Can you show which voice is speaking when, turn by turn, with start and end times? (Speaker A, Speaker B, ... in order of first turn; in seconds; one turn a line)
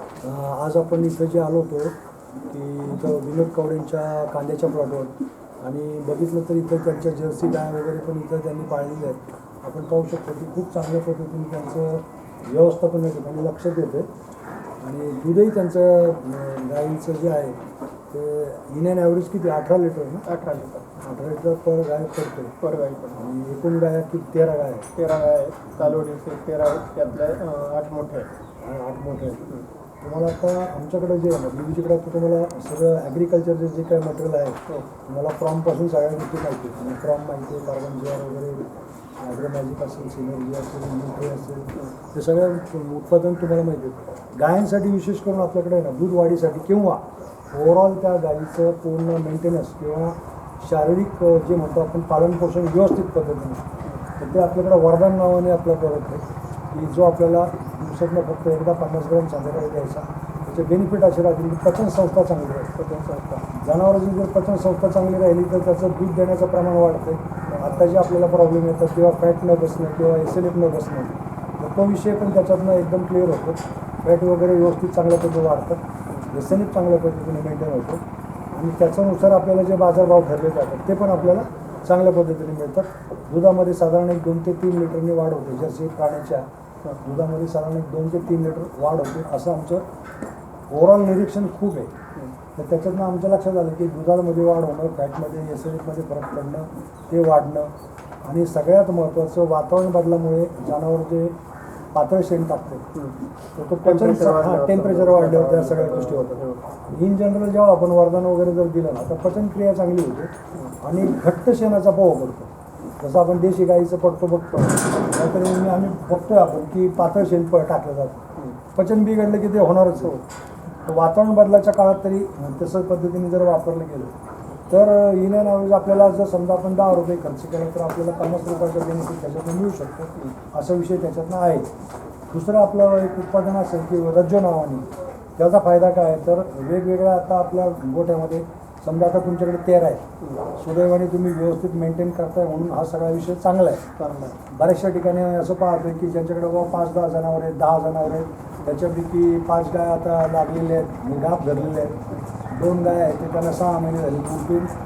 Speaker A: 0.2-1.9
Speaker A: 2.5-14.1
Speaker A: 14.8-17.6
Speaker A: 18.1-20.3
Speaker B: 20.3-20.9
Speaker A: 21.0-22.6
Speaker B: 22.6-23.3
Speaker A: 23.2-24.9
Speaker B: 24.9-28.3
Speaker A: 28.6-29.5
Speaker A: 30.0-38.7
Speaker A: 39.2-47.0
Speaker A: 47.5-53.6
Speaker A: 54.2-62.7
Speaker B: 62.8-63.4
Speaker A: 63.5-75.8
Speaker B: 67.5-67.8
Speaker A: 76.3-78.0
Speaker A: 78.5-86.5
Speaker A: 87.0-89.8
Speaker A: 90.7-91.9
Speaker A: 92.6-97.7
Speaker A: 98.2-101.3
Speaker A: 101.9-102.8
Speaker A: 103.6-120.2
Speaker B: 103.8-106.6
Speaker A: 120.9-124.1
Speaker A: 124.7-131.7
Speaker A: 132.3-140.0
Speaker B: 140.2-140.5
Speaker A: 140.6-143.8
Speaker B: 144.0-144.4
Speaker A: 144.5-152.0
Speaker A: 152.5-154.7